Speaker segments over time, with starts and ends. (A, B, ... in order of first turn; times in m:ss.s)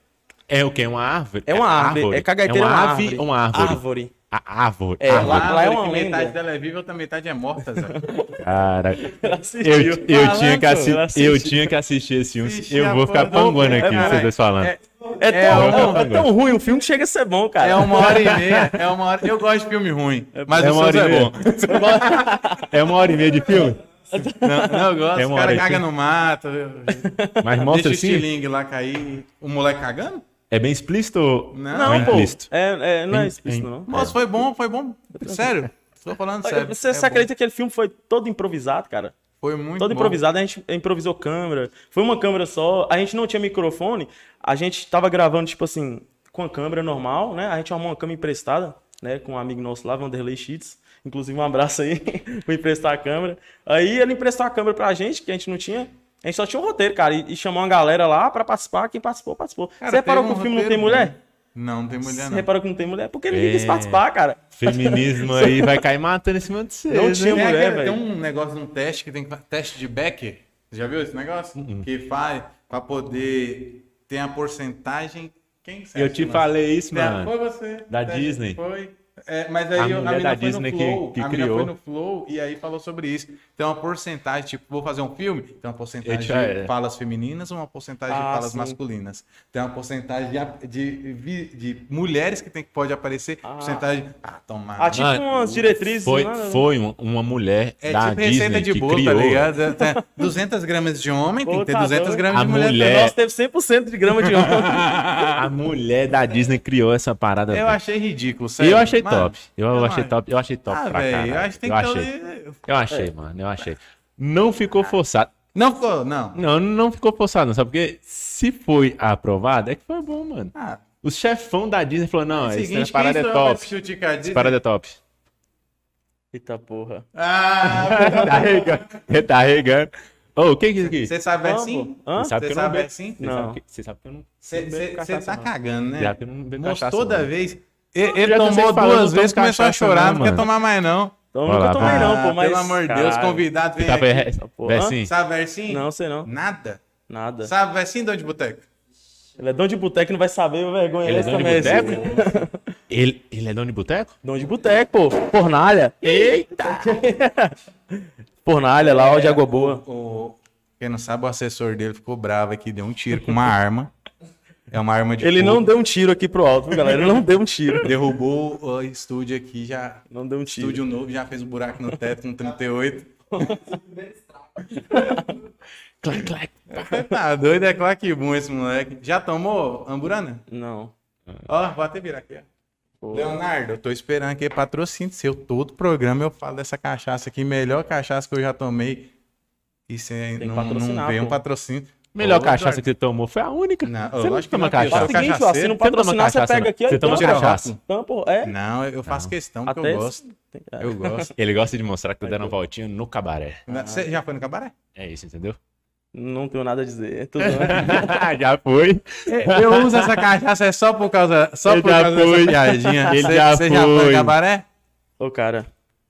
0:00.5-0:05.6 A
0:01.5-0:04.1 B
0:05.0-0:06.4 B
0:05.1-0:08.0 C
0:07.7-0:08.4 B
0:08.4-0:14.7 A
0:09.0-0:11.7 B
0:10.1-0:10.9 C
0:12.4-0:16.1 C
0:13.6-0:14.3 B
0:15.1-0:18.4 B
0:15.5-0:16.3 A
0:17.6-0:22.6 C
0:17.9-0:18.8 A
0:20.3-0:20.7 B
0:20.6-0:21.5 A
0:21.7-0:22.8 B
0:22.6-0:23.8 A
0:23.4-0:25.0 B
0:24.4-0:27.1 C
0:25.2-0:25.9 A
0:27.0-0:27.6 B
0:27.4-0:28.3 A
0:27.7-0:30.2 C
0:30.5-0:32.5 A
0:31.5-0:32.3 C
0:31.7-0:34.0 B
0:33.1-0:34.1 A
0:33.9-0:37.3 C
0:36.4-0:39.2 B
0:39.4-0:40.2 C
0:39.8-1:01.2 B
0:59.8-1:02.5 C
1:02.0-1:05.8 B
1:03.3-1:04.0 A
1:04.6-1:07.4 A
1:06.9-1:08.0 B
1:07.3-1:35.0 C
1:11.6-1:11.9 A
1:16.0-1:17.3 A
1:17.9-1:18.6 A
1:19.8-1:21.7 A
1:26.0-1:26.7 A
1:28.1-1:28.8 B
1:33.4-1:33.8 B
1:34.8-1:36.6 B
1:34.9-1:39.5 A
1:37.8-1:43.1 C
1:39.8-1:40.3 B
1:41.4-1:45.0 B
1:42.3-1:43.1 A
1:44.2-1:45.4 C
1:45.3-1:47.8 A
1:47.5-1:50.1 C
1:48.6-1:52.1 A
1:50.7-1:52.6 C
1:52.6-1:55.3 A
1:55.5-1:56.4 C
1:56.4-2:03.7 A
2:00.5-2:00.8 C
2:02.4-2:04.6 C
2:04.2-2:05.0 A
2:06.3-2:07.0 B
2:07.2-2:09.0 C
2:07.6-2:11.1 A
2:10.9-2:13.3 C
2:11.4-2:12.4 B
2:12.2-2:14.4 A
2:13.2-2:13.6 B
2:14.5-2:21.2 C
2:14.5-2:15.5 B
2:16.0-2:17.3 A
2:18.0-2:20.5 A
2:21.3-2:23.5 B
2:21.5-2:22.2 A
2:21.8-2:24.2 C
2:23.8-2:25.1 A
2:24.4-2:25.0 B
2:25.0-2:26.8 C
2:25.7-2:26.3 B
2:27.1-2:27.5 B
2:27.4-2:28.7 C
2:29.4-2:32.6 B
2:31.0-2:32.3 A
2:32.9-2:34.2 A
2:34.2-2:39.8 B
2:36.0-2:37.0 A
2:38.8-2:43.9 C
2:44.7-2:45.7 C
2:45.2-2:48.0 B
2:47.8-2:53.6 C
2:50.1-2:50.8 B
2:53.3-2:53.9 B
2:54.7-2:55.4 B
2:56.0-2:57.1 A
2:56.7-3:00.4 C
3:00.5-3:00.9 B
3:01.5-3:02.5 C
3:03.0-3:03.4 B
3:03.1-3:09.1 C
3:09.9-3:12.8 C
3:10.4-3:11.4 B
3:12.1-3:17.8 A
3:13.8-3:15.8 C
3:14.9-3:18.5 B
3:17.0-3:17.8 C
3:18.4-3:20.2 C
3:19.1-3:19.3 A
3:19.7-3:21.3 B
3:20.8-3:21.3 C
3:21.4-3:23.6 A
3:22.2-3:22.5 B
3:23.7-3:24.7 C
3:23.7-3:24.1 B
3:25.0-3:25.6 A
3:26.1-3:28.2 B
3:27.4-3:30.2 A
3:29.3-3:34.7 C
3:31.7-3:34.4 A
3:35.2-3:35.7 B